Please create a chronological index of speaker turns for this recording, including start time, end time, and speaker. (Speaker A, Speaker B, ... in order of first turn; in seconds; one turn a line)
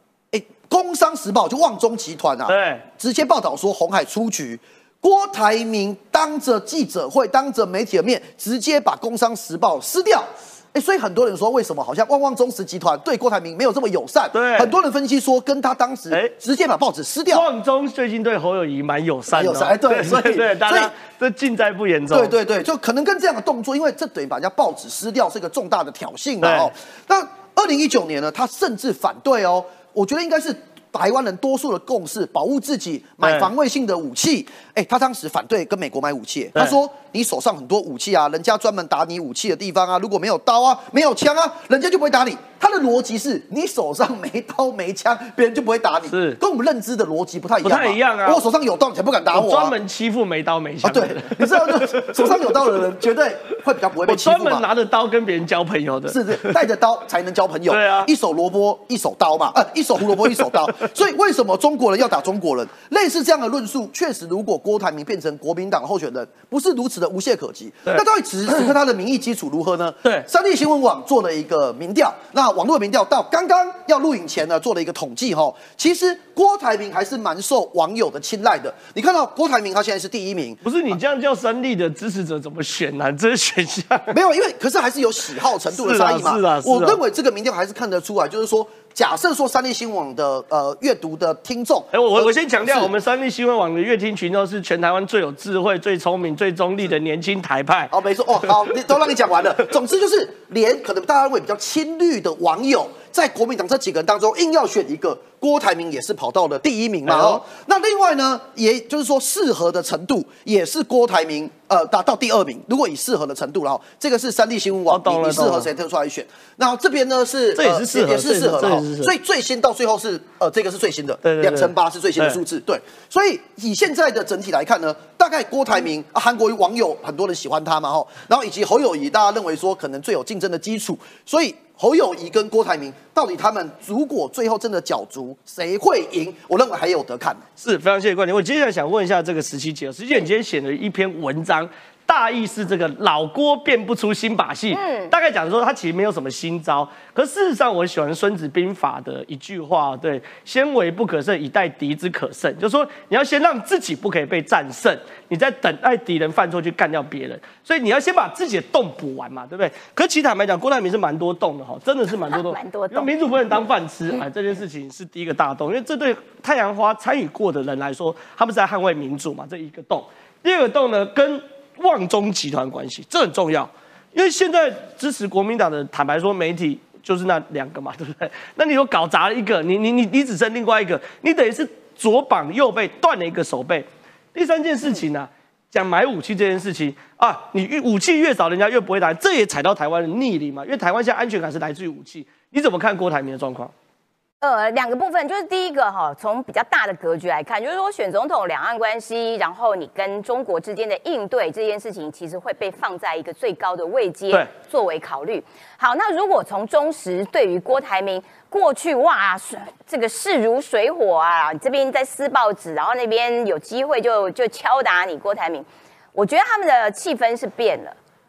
Speaker A: 0.3-17.5
Speaker B: 2.5-2.8
Speaker B: 14.3-14.7
Speaker B: 17.3-22.3
Speaker A: 19.3-20.9
Speaker A: 22.1-49.7
Speaker B: 26.4-26.7
Speaker B: 33.2-33.5
Speaker B: 46.1-46.4
Speaker B: 47.6-48.4
Speaker B: 49.3-52.5
Speaker A: 50.8-54.6
Speaker B: 54.1-56.6
Speaker A: 56.1-80.6
Speaker B: 57.7-58.1
Speaker B: 80.6-84.1
Speaker A: 84.1-92.9
Speaker B: 85.7-87.0
Speaker B: 91.9-97.9
Speaker A: 97.9-137.4
Speaker B: 107.1-107.4
Speaker B: 114.9-115.7
Speaker B: 117.5-119.1
Speaker B: 121.2-122.4
Speaker B: 137.6-193.7
Speaker C: 144.7-145.1
Speaker C: 162.3-163.1
Speaker C: 194.4-217.9